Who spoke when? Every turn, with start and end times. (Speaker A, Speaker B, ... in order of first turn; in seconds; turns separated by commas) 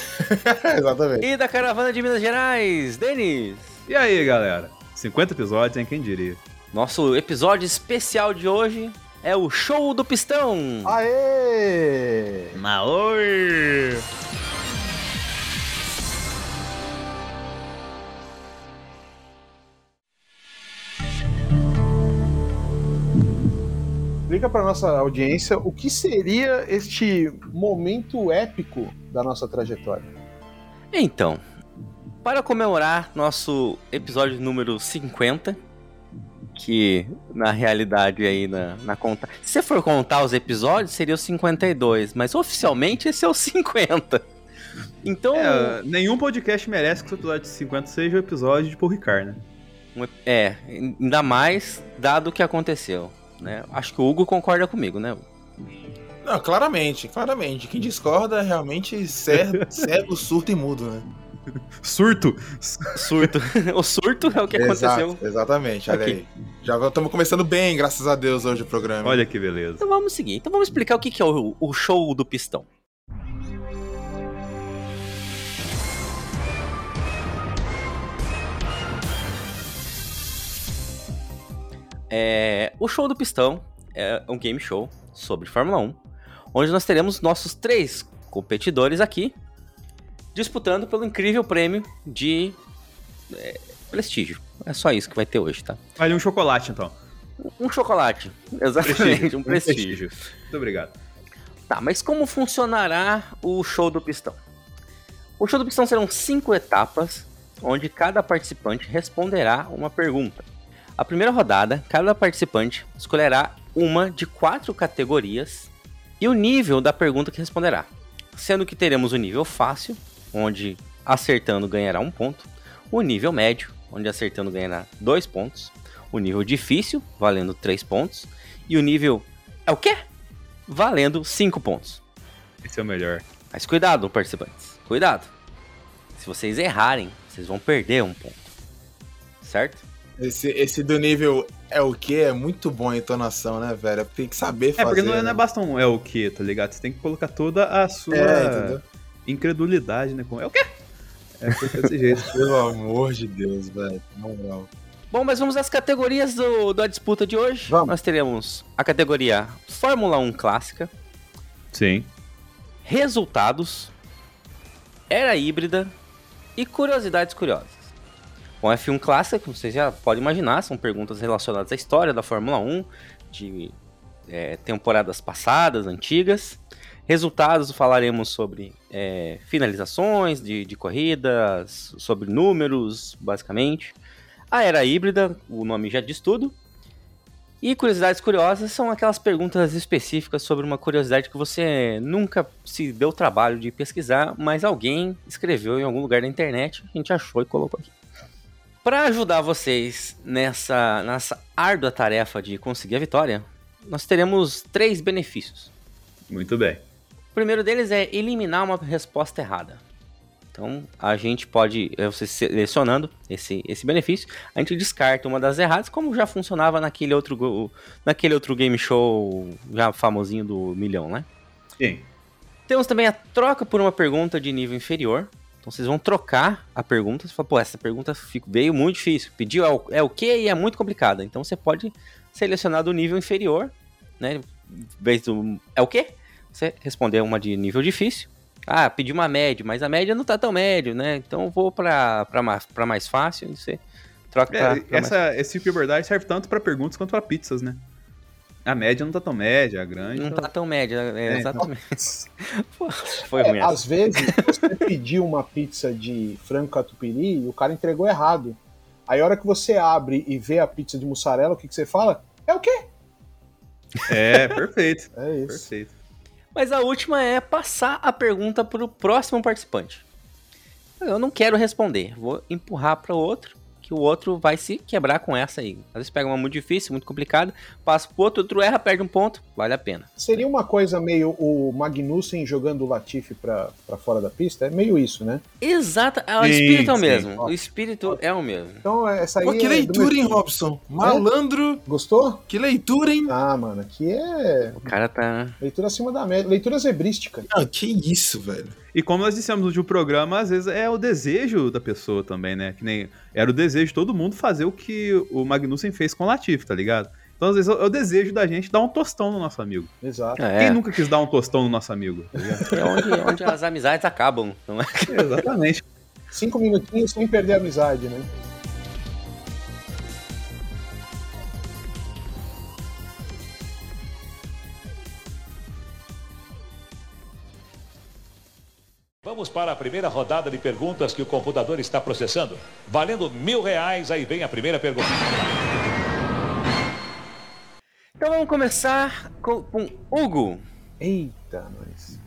Speaker A: 0.2-1.3, Speaker B: 1.2-3.7, Speaker C: 3.9-6.4, Speaker B: 6.7-11.0, Speaker D: 10.8-12.6, Speaker C: 12.5-13.6, Speaker E: 13.5-14.0, Speaker D: 24.3-30.1, Speaker B: 30.9-31.4, Speaker B: 32.2-35.6, Speaker B: 36.5-44.2, Speaker B: 45.0-45.8, Speaker C: 45.3-49.4, Speaker B: 49.9-55.2, Speaker A: 56.2-61.0, Speaker C: 59.3-59.9, Speaker C: 61.8-63.3, Speaker B: 63.0-65.2, Speaker A: 64.5-69.2, Speaker B: 65.9-66.2, Speaker C: 69.0-69.8, Speaker B: 69.8-72.7, Speaker B: 82.1-86.0, Speaker B: 86.5-89.3, Speaker B: 90.3-92.6, Speaker B: 93.3-95.8, Speaker C: 96.0-97.0, Speaker B: 97.4-100.1, Speaker C: 98.8-101.0, Speaker B: 101.7-104.4, Speaker B: 105.4-110.5, Speaker B: 111.0-130.0, Speaker B: 130.7-132.0, Speaker C: 132.6-133.2, Speaker B: 133.5-135.3, Speaker B: 136.2-138.5, Speaker B: 139.4-139.8, Speaker A: 140.2-145.4, Speaker C: 144.8-150.7, Speaker A: 148.1-148.8, Speaker C: 151.4-152.4, Speaker A: 152.1-154.7, Speaker B: 155.1-160.9, Speaker D: 157.7-157.9, Speaker C: 161.7-162.1, Speaker B: 162.8-163.9, Speaker B: 165.1-165.9, Speaker B: 166.6-167.9, Speaker B: 168.6-173.7, Speaker B: 174.3-183.9, Speaker B: 184.5-186.5, Speaker B: 187.6-197.9, Speaker B: 198.8-205.7, Speaker C: 206.3-206.8, Speaker B: 207.3-209.8, Speaker B: 210.5-221.2, Speaker C: 221.8-222.1, Speaker B: 222.7-243.8, Speaker B: 244.3-245.2, Speaker C: 244.5-247.8, Speaker C: 248.7-250.5, Speaker B: 250.1-254.4, Speaker C: 251.3-251.5, Speaker D: 253.4-262.8, Speaker C: 264.1-265.9, Speaker D: 265.2-265.7, Speaker B: 266.5-270.0, Speaker B: 271.0-280.1, Speaker D: 280.2-285.4, Speaker B: 285.6-288.8, Speaker C: 286.4-287.3, Speaker D: 287.4-288.2, Speaker D: 288.8-290.4, Speaker A: 289.4-291.8, Speaker D: 291.9-292.4, Speaker A: 292.5-293.3, Speaker D: 293.3-294.9, Speaker B: 294.8-295.6, Speaker D: 295.6-297.5, Speaker A: 297.5-298.7, Speaker C: 298.9-309.9, Speaker D: 310.0-310.4, Speaker B: 310.4-310.8, Speaker C: 310.6-312.8, Speaker B: 312.7-315.4, Speaker C: 315.1-315.8, Speaker D: 316.3-318.3, Speaker E: 329.2-335.5, Speaker B: 338.2-340.6, Speaker D: 341.0-342.2